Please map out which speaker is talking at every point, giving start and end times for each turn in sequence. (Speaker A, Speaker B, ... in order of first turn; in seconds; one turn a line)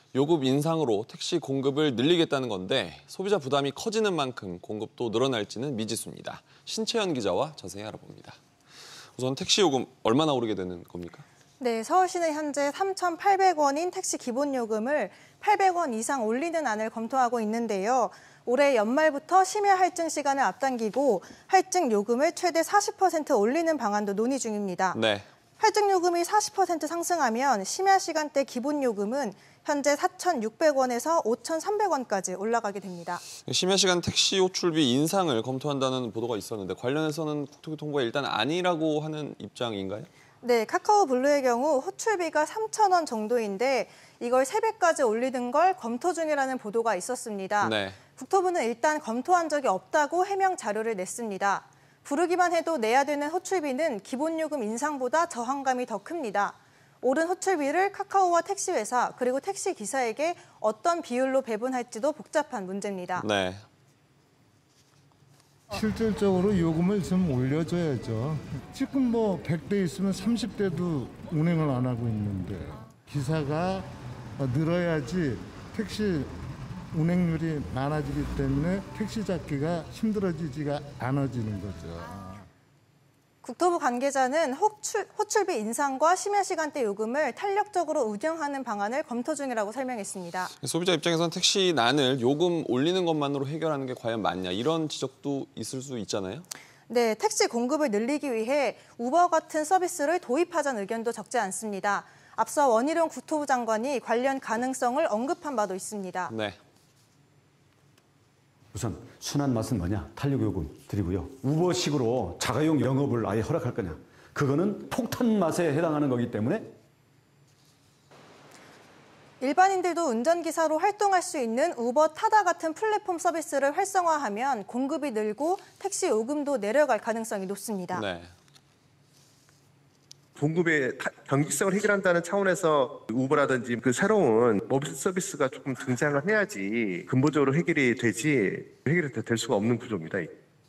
Speaker A: 0.1-8.4
Speaker A: 9.2-11.2
Speaker B: 11.6-25.0
Speaker A: 24.9-25.3
Speaker B: 25.6-33.2
Speaker A: 33.4-40.1
Speaker B: 40.4-63.3
Speaker A: 47.6-48.0
Speaker A: 63.2-63.6
Speaker C: 65.7-76.3
Speaker C: 76.9-82.5
Speaker B: 83.4-90.5
Speaker A: 90.6-96.5
Speaker B: 96.9-106.3
Speaker A: 106.3-106.6
Speaker D: 108.7-116.8
Speaker B: 119.4-128.0
Speaker A: 127.9-128.3
Speaker E: 130.4-140.3